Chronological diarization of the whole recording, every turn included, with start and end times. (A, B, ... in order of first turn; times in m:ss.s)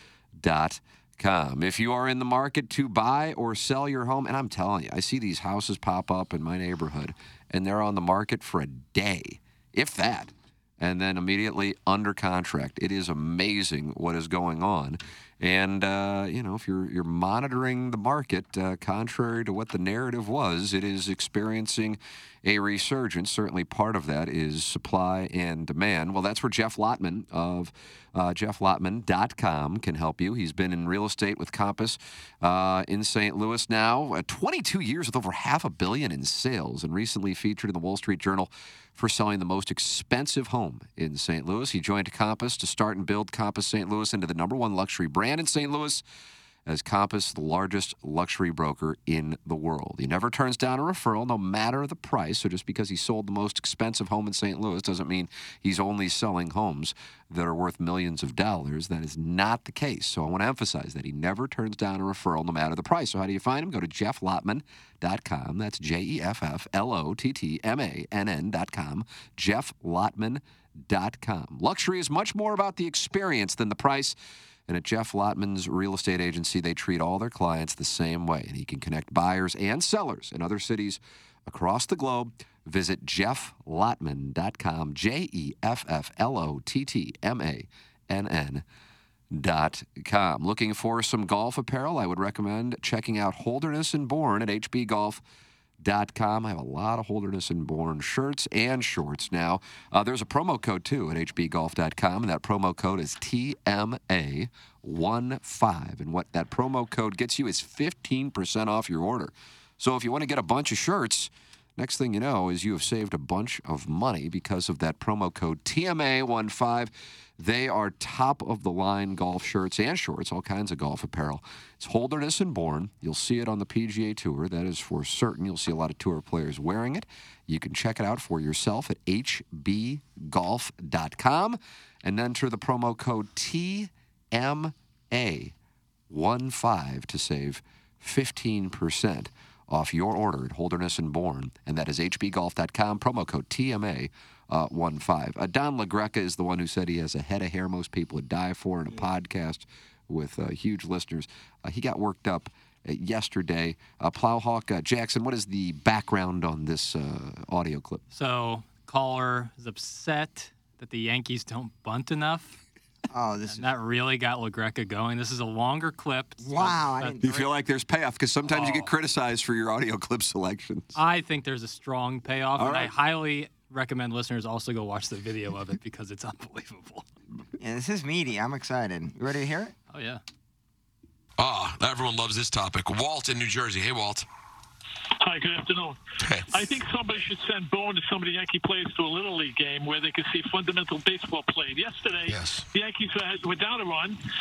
0:00.4-0:46.0 A
0:46.7-1:14.2 A
1:14.7-1:28.6 A
1:29.3-1:35.2 A
1:35.8-2:15.5 A
2:16.1-2:38.0 A
2:38.1-2:42.6 B
2:43.1-2:43.7 C
2:43.5-2:47.2 B
2:46.4-2:47.5 C
2:47.2-2:51.0 A
2:48.5-2:48.9 B
2:51.0-2:57.0 B
2:52.6-2:52.9 A
2:57.6-2:59.7 C
2:59.9-3:00.2 B
3:01.4-3:04.3 D
3:05.2-3:14.2 E
3:06.2-3:06.6 D
3:12.3-3:12.6 D